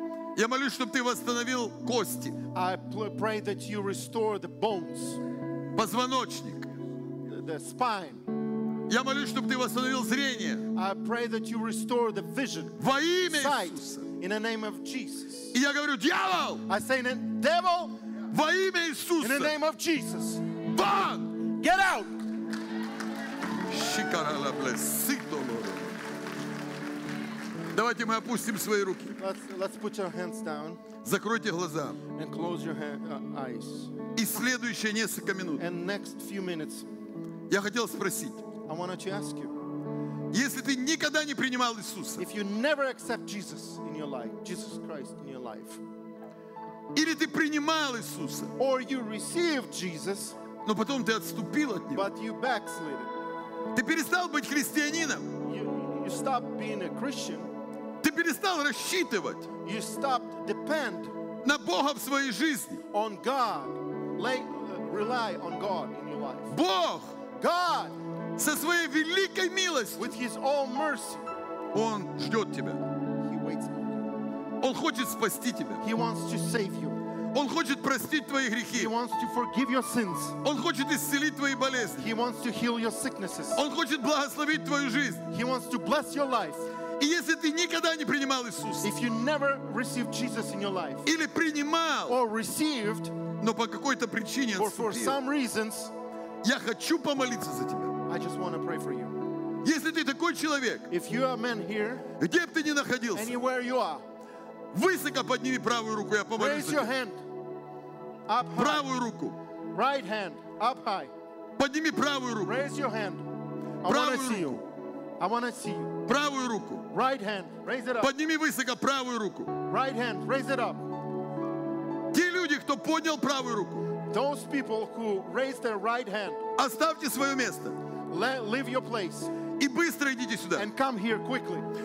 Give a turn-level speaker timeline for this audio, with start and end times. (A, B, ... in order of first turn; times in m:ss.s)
0:00.4-0:02.4 A
0:02.5-0:05.2 B
0:05.7-0:06.7 A
0:07.2-0:08.3 B
0:08.9-0:10.7 A
0:10.7-0:15.6 B
0:12.8-0:14.1 A
0:15.5-0:16.6 A
0:16.7-0:18.0 B
0:18.3-0:19.5 A
0:19.2-0:20.4 B
0:20.6-0:21.4 A
0:21.5-0:22.1 B
0:23.7-0:26.0 A
0:27.7-0:29.2 A
0:29.2-0:30.8 B
0:31.0-0:32.0 A
0:32.1-0:33.9 B
0:34.1-0:35.6 A
0:35.6-0:36.9 B
0:37.5-0:38.5 A
0:38.6-0:39.6 B
0:40.3-0:42.2 A
0:42.2-0:45.8 B
0:46.9-0:48.5 A
0:48.6-0:50.4 B
0:50.6-0:52.1 A
0:51.9-0:53.1 B
0:53.7-0:55.3 A
0:55.4-0:57.5 B
0:58.0-0:59.5 A
0:59.6-1:01.1 B
1:01.4-1:02.8 A
1:02.9-1:06.5 B
1:06.5-1:07.2 A
1:07.4-1:08.0 B
1:08.4-1:10.2 A
1:10.0-1:11.3 B
1:11.7-1:12.8 A
1:13.2-1:14.0 B
1:14.6-1:15.8 A
1:15.8-1:17.0 B
1:17.3-1:18.9 A
1:18.7-1:20.4 B
1:20.4-1:22.1 A
1:22.0-1:23.6 B
1:23.5-1:25.2 A
1:25.3-1:26.7 B
1:27.0-1:28.9 A
1:28.8-1:31.1 B
1:31.0-1:32.2 A
1:32.1-1:33.2 B
1:33.4-1:35.2 A
1:34.6-1:35.9 B
1:36.4-1:38.0 A
1:38.1-1:39.2 B
1:39.6-1:40.9 A
1:40.9-1:42.1 B
1:42.2-1:43.4 A
1:43.1-1:44.0 B
1:44.7-1:46.9 A
1:46.3-1:47.2 B
1:48.3-1:48.9 B
1:48.6-1:49.4 A
1:49.7-1:51.1 B
1:51.6-1:52.6 A
1:52.4-1:53.3 B
1:53.8-1:54.6 B
1:53.8-1:54.6 A
1:55.2-1:56.0 B
1:56.1-1:56.9 A
1:56.9-1:58.1 B
1:58.0-1:59.6 A
1:59.7-2:00.9 B
2:02.1-2:03.9 A
2:04.0-2:06.4 B
2:06.6-2:07.8 A
2:08.1-2:09.3 B
2:09.6-2:10.7 A
2:10.6-2:11.7 B